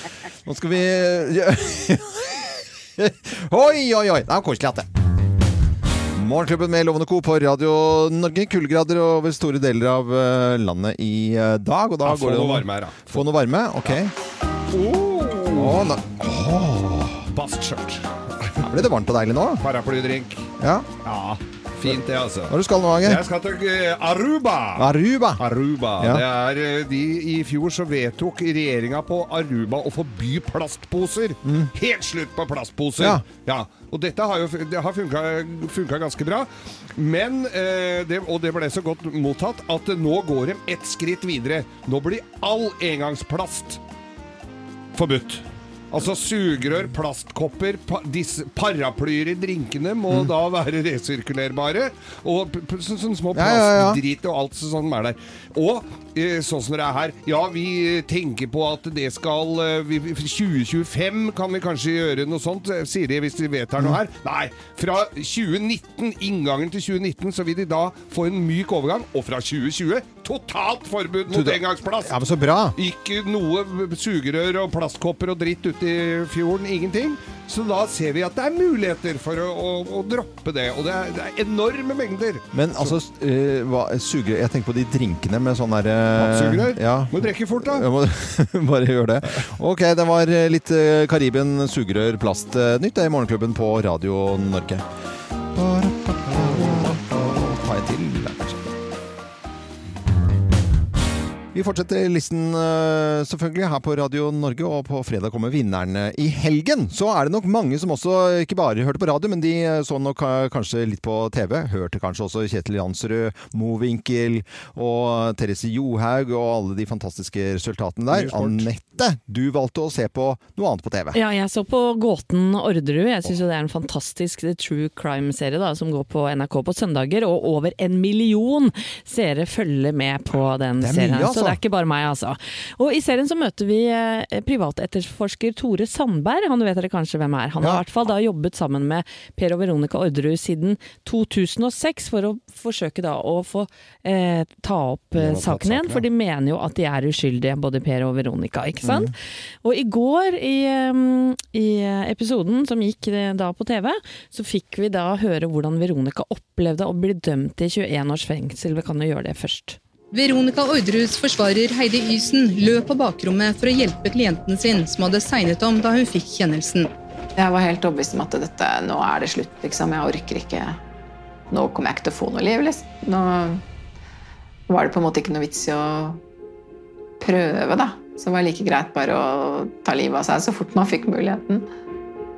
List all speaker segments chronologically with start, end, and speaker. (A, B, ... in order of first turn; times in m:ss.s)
0:00.4-0:04.9 A
0:06.1-0:14.1 A
0:12.0-0:13.3 B
0:14.7-0:17.3 A
0:15.5-0:15.9 B
0:17.3-0:18.6 B
0:18.6-0:19.6 A
0:19.6-0:20.5 B
0:20.6-0:20.9 A
0:21.0-0:43.8 B
0:21.8-0:23.2 A
0:24.8-0:25.4 A
0:26.0-0:26.2 A
0:31.4-0:31.7 A
0:33.0-0:33.2 A
0:45.0-1:12.2 B
0:53.3-0:54.0 A
1:11.3-1:12.8 A
1:12.8-1:23.0 B
1:22.5-1:34.8 A
1:26.2-1:27.9 B
1:35.5-1:38.7 A
1:41.5-2:01.2 A
1:58.1-1:58.7 B
2:01.1-2:39.8 C
2:10.8-2:11.6 A
2:25.2-2:26.0 B
2:28.8-2:29.1 A
2:40.1-2:46.9 D
2:47.4-2:50.8 E
2:51.5-2:53.6 E
2:54.7-2:56.2 E
2:57.2-3:01.7 E